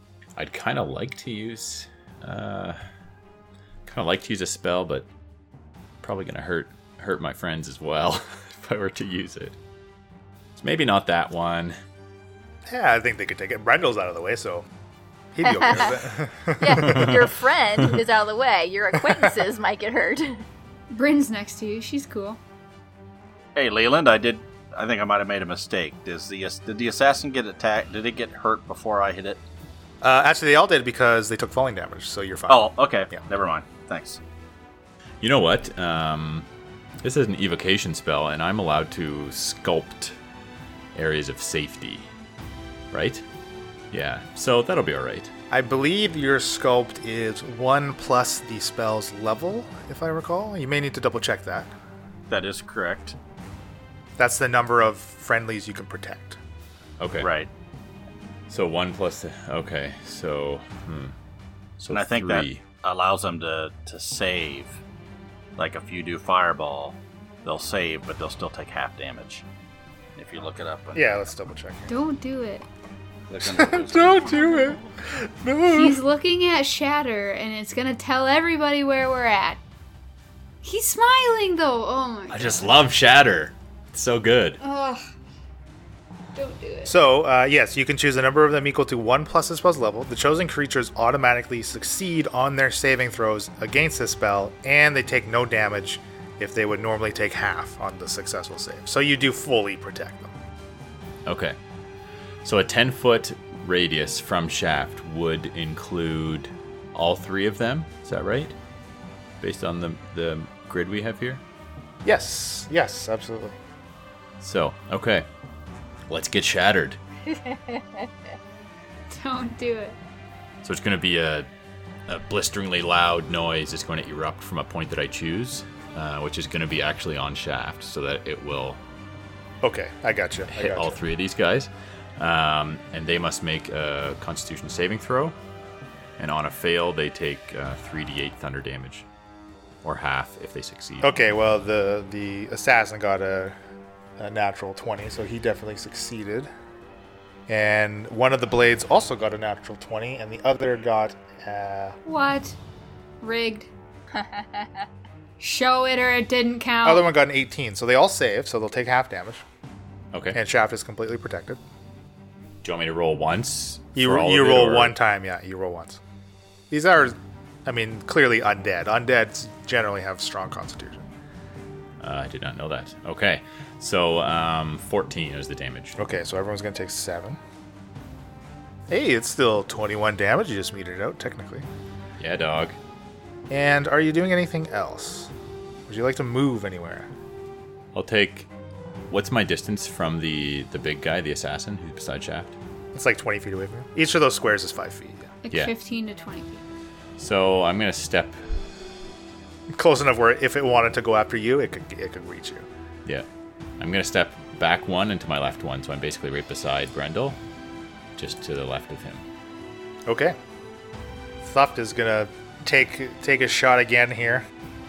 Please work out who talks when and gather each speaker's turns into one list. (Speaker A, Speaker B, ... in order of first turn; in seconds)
Speaker A: 0.3-2.8, 3.9-5.1, 6.0-9.6, 10.6-11.8, 16.8-17.1, 35.2-36.5, 37.0-40.1, 40.9-42.1, 42.9-43.2, 43.9-45.3, 57.0-57.3, 58.5-61.1, 61.8-62.6, 82.3-84.6, 101.2-101.5, 102.4-108.5, 109.4-111.4, 114.4-115.2, 116.1-117.0, 120.6-121.5, 122.1-128.8, 130.5-135.3, 136.2-139.1, 139.8-141.2, 160.1-160.4, 162.6-164.9, 172.0-176.0, 182.2-182.8, 187.9-188.5, 189.1-192.6, 197.2-198.4, 203.8-207.4, 208.2-209.2
Speaker B: 12.7-14.7, 15.3-17.2, 30.0-33.2, 45.5-51.7, 54.2-56.4, 70.9-71.9, 73.4-76.0, 86.8-100.3, 112.0-113.6, 129.6-131.0, 141.0-143.5, 144.2-146.5, 147.5-151.9, 156.8-159.4, 160.3-161.6, 163.9-166.0, 166.7-171.1, 176.0-177.4, 178.9-181.7, 183.5-185.3, 185.9-187.1, 192.9-195.3, 199.7-202.7, 210.1-210.3, 211.4-214.4
Speaker C: 15.4-16.1, 16.6-20.4, 117.3-118.1, 154.1-154.8
Speaker D: 20.9-22.4, 71.9-72.7, 75.7-79.6, 80.6-82.7, 84.6-85.0, 86.3-86.9, 119.1-120.0, 152.1-152.6, 153.2-153.7, 155.4-157.1, 195.4-196.6
Speaker E: 23.5-29.4, 32.5-34.2, 52.3-53.1, 57.2-57.5, 61.9-64.8, 65.6-69.4, 70.2-71.0, 73.3-74.3